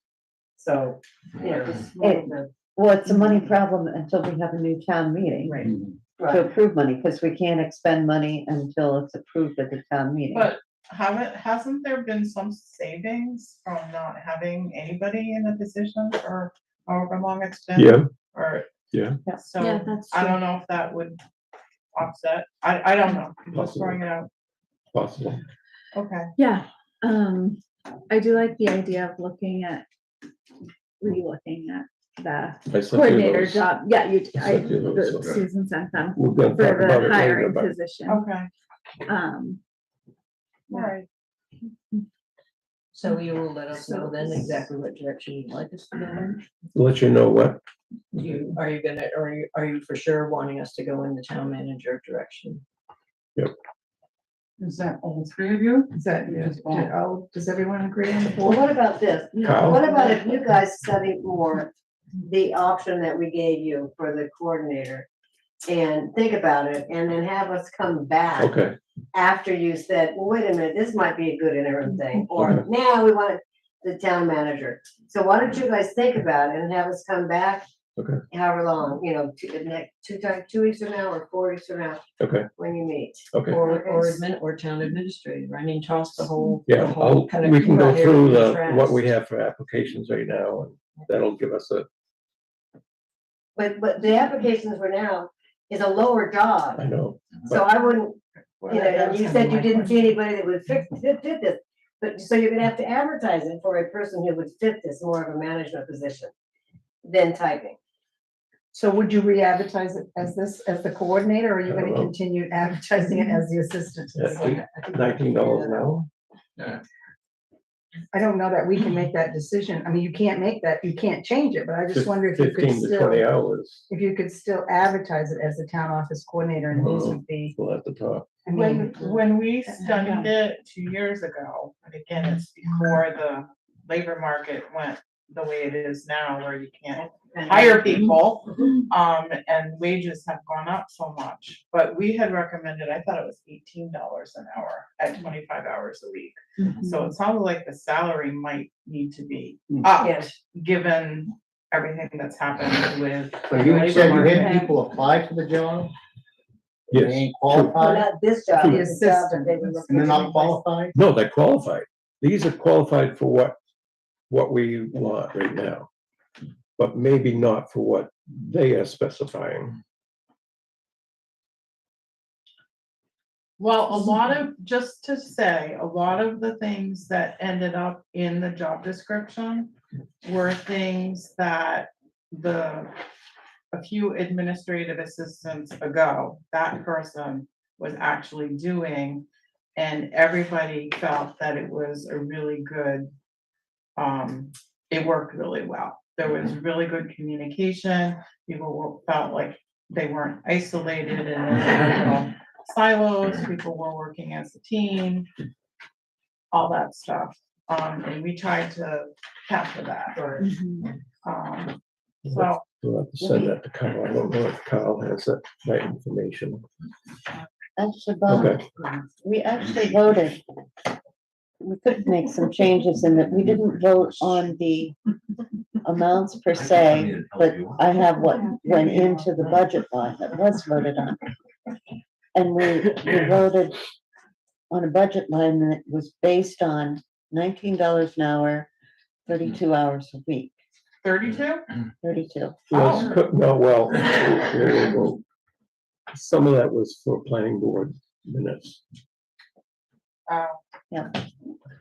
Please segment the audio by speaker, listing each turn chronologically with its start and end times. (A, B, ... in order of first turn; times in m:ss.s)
0:00.6-0:02.5 A
0:02.0-0:05.6 B
0:06.2-0:06.5 A
0:06.2-0:10.5 B
0:10.3-0:18.7 C
0:17.8-0:18.1 D
0:18.9-0:19.2 D
0:19.4-0:21.2 C
0:19.6-0:20.4 E
0:22.0-0:24.3 C
0:23.5-0:24.0 D
0:24.9-0:25.4 D
0:25.9-0:26.3 C
0:26.4-0:29.8 E
0:31.0-0:38.2 E
0:32.7-0:33.7 D
0:34.3-0:35.4 D
0:36.1-0:37.7 D
0:38.1-0:38.5 C
0:39.1-0:39.6 E
0:40.7-0:41.0 C
0:42.9-0:46.6 F
0:46.7-0:47.6 D
0:48.2-0:52.6 F
0:55.9-0:58.6 G
0:56.3-0:56.9 F
0:58.4-1:01.7 A
0:59.4-0:59.9 D
1:02.2-1:05.1 A
1:05.7-1:08.5 A
1:08.4-1:08.8 D
1:09.1-1:17.6 A
1:12.3-1:12.6 D
1:18.3-1:22.0 A
1:22.2-1:22.5 D
1:22.6-1:24.2 A
1:23.3-1:23.6 D
1:23.5-1:29.0 F
1:26.7-1:31.9 D
1:33.6-1:36.8 A
1:36.8-1:37.6 D
1:37.4-1:46.3 A
1:38.7-1:39.9 G
1:47.0-1:47.8 A
1:48.7-1:54.6 G
1:51.7-1:52.1 D
1:54.2-1:56.1 D
1:54.3-1:55.9 F
1:58.1-2:03.3 G
2:01.9-2:03.9 D
2:03.9-2:07.5 G
2:06.8-2:08.3 D
2:08.4-2:09.2 G
2:08.5-2:34.7 C
2:09.8-2:10.4 E
2:26.6-2:27.1 E
2:30.0-2:30.3 A
2:33.5-2:35.9 H
2:34.2-2:34.7 E
2:36.9-2:37.9 D
2:36.9-2:38.1 H
2:37.8-2:40.6 A
2:38.6-2:40.4 G
2:39.9-2:41.0 H
2:40.9-2:43.6 D
2:44.3-2:45.9 D
2:46.8-2:49.8 D
2:53.6-3:02.9 C
3:03.7-3:09.2 C
3:09.8-3:13.1 C
3:14.0-3:25.3 C
3:26.5-3:30.4 C
3:30.4-3:30.9 E
3:31.2-3:32.6 C
3:32.3-3:36.6 D
3:33.2-3:33.6 B
3:37.8-3:38.6 B
3:38.3-3:38.6 D
3:39.2-3:40.4 B
3:41.6-3:45.0 B
3:45.8-3:51.2 B
3:52.4-3:53.8 B
3:54.7-3:58.7 B
3:59.3-4:00.6 B
4:01.0-4:01.6 C
4:02.0-4:03.1 B
4:02.7-4:03.1 C
4:02.7-4:05.2 D
4:06.1-4:08.8 D
4:10.3-4:10.6 C